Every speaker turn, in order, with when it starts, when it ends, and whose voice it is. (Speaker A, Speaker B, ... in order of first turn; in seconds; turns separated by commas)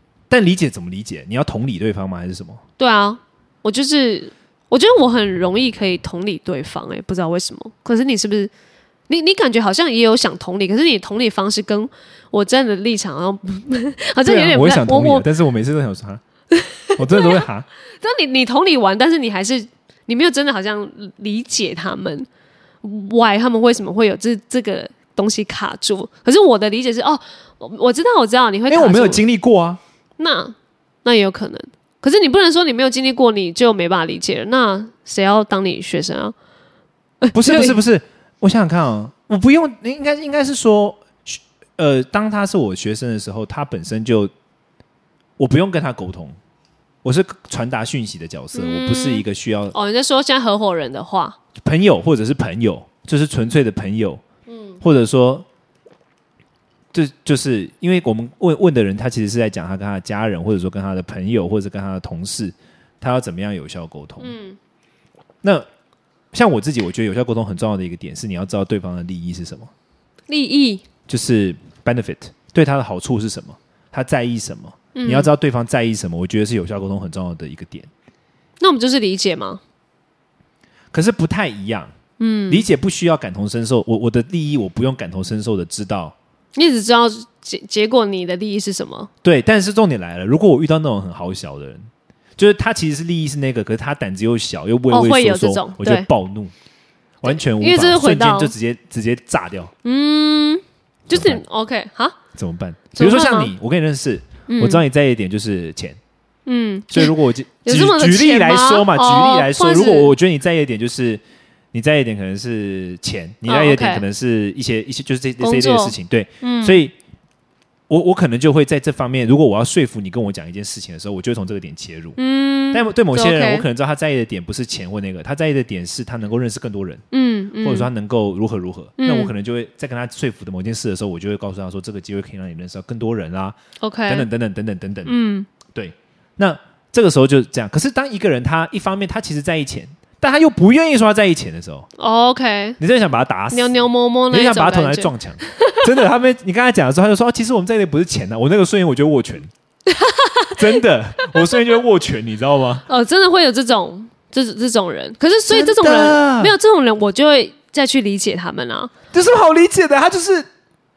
Speaker A: 0.3-2.6, Speaker B: 2.8-8.5, Speaker B: 9.1-15.2, Speaker A: 14.2-16.2, Speaker B: 16.5-17.4, Speaker A: 16.9-17.7, Speaker B: 18.0-22.3, Speaker B: 22.8-29.2, Speaker A: 28.7-29.8, Speaker B: 30.2-36.3, Speaker B: 37.2-37.8, Speaker A: 37.3-44.3, Speaker A: 45.4-46.4, Speaker A: 47.0-49.7, Speaker B: 48.5-51.4, Speaker A: 51.6-54.2, Speaker B: 54.5-54.8, Speaker A: 54.8-55.5, Speaker A: 56.9-64.3, Speaker B: 64.2-64.6, Speaker A: 66.3-69.7, Speaker B: 70.3-70.8, Speaker A: 71.1-77.9, Speaker B: 74.9-75.3, Speaker B: 78.6-79.6, Speaker A: 80.9-81.9, Speaker B: 82.2-82.7, Speaker A: 82.5-86.2, Speaker B: 86.5-89.1, Speaker A: 89.2-96.5, Speaker B: 94.9-96.1, Speaker A: 97.2-99.7, Speaker B: 97.2-98.5, Speaker B: 99.8-102.2, Speaker A: 101.1-101.4, Speaker A: 102.3-106.0, Speaker B: 102.9-103.5, Speaker B: 104.5-104.8, Speaker B: 106.5-107.1, Speaker A: 106.9-111.2, Speaker B: 107.6-110.1, Speaker A: 111.7-116.9, Speaker B: 113.5-114.0, Speaker B: 115.4-116.8, Speaker A: 117.9-122.2, Speaker B: 122.2-123.7, Speaker A: 122.7-127.0, Speaker B: 127.1-127.9, Speaker A: 127.6-133.6, Speaker B: 129.0-129.3, Speaker B: 133.8-134.3, Speaker A: 134.1-135.1, Speaker B: 135.1-135.5, Speaker A: 135.7-141.9, Speaker B: 142.0-142.8, Speaker A: 142.8-143.8, Speaker B: 143.5-145.9, Speaker A: 144.3-149.5, Speaker B: 149.8-150.7, Speaker A: 150.5-152.8, Speaker B: 152.9-158.9, Speaker A: 155.5-156.5, Speaker A: 159.1-160.5